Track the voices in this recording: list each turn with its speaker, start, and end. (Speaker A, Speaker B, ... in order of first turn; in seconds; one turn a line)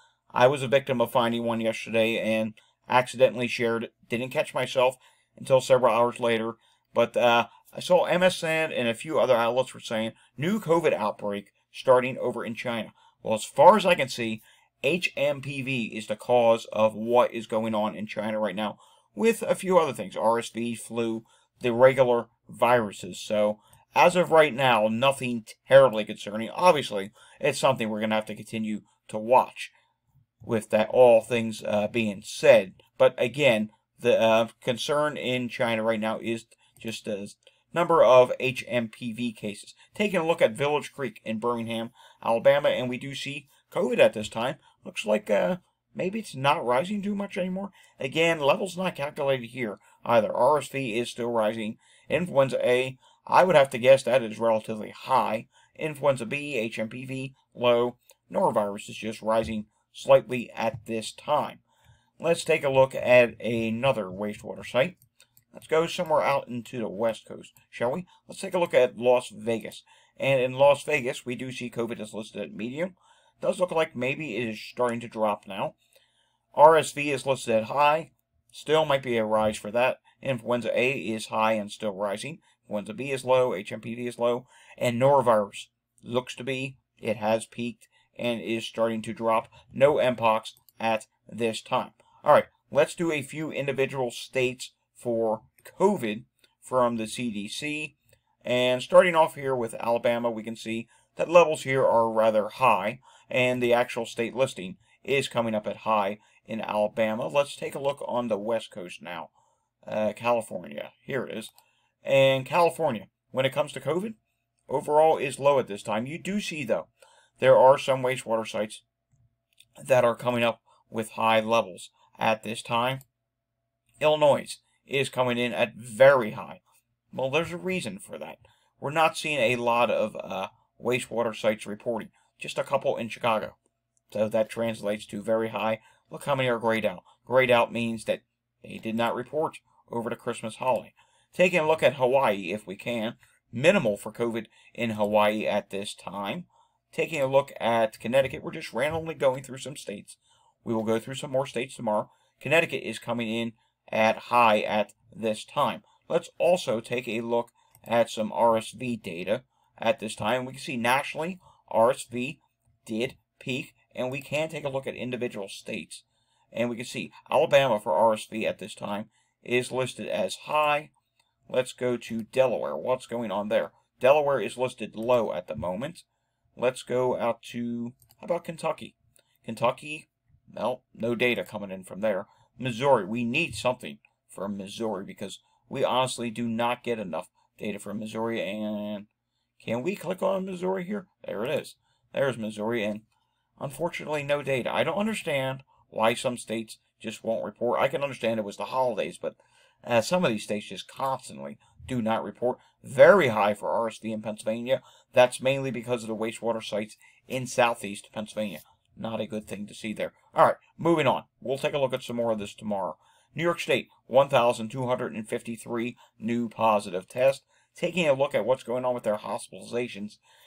Speaker A: 0.3-29.7
Speaker A: 30.4-61.6
Speaker A: 62.2-65.0
Speaker A: 65.5-75.8
Speaker A: 76.5-109.3
Speaker A: 109.8-111.5
Speaker A: 112.0-114.2
Speaker A: 114.7-118.8
Speaker A: 119.8-123.0
Speaker A: 124.0-126.6
Speaker A: 127.1-133.6
Speaker A: 134.1-170.9
Speaker A: 171.5-176.0
Speaker A: 176.6-189.1
Speaker A: 189.6-193.0
Speaker A: 193.6-220.2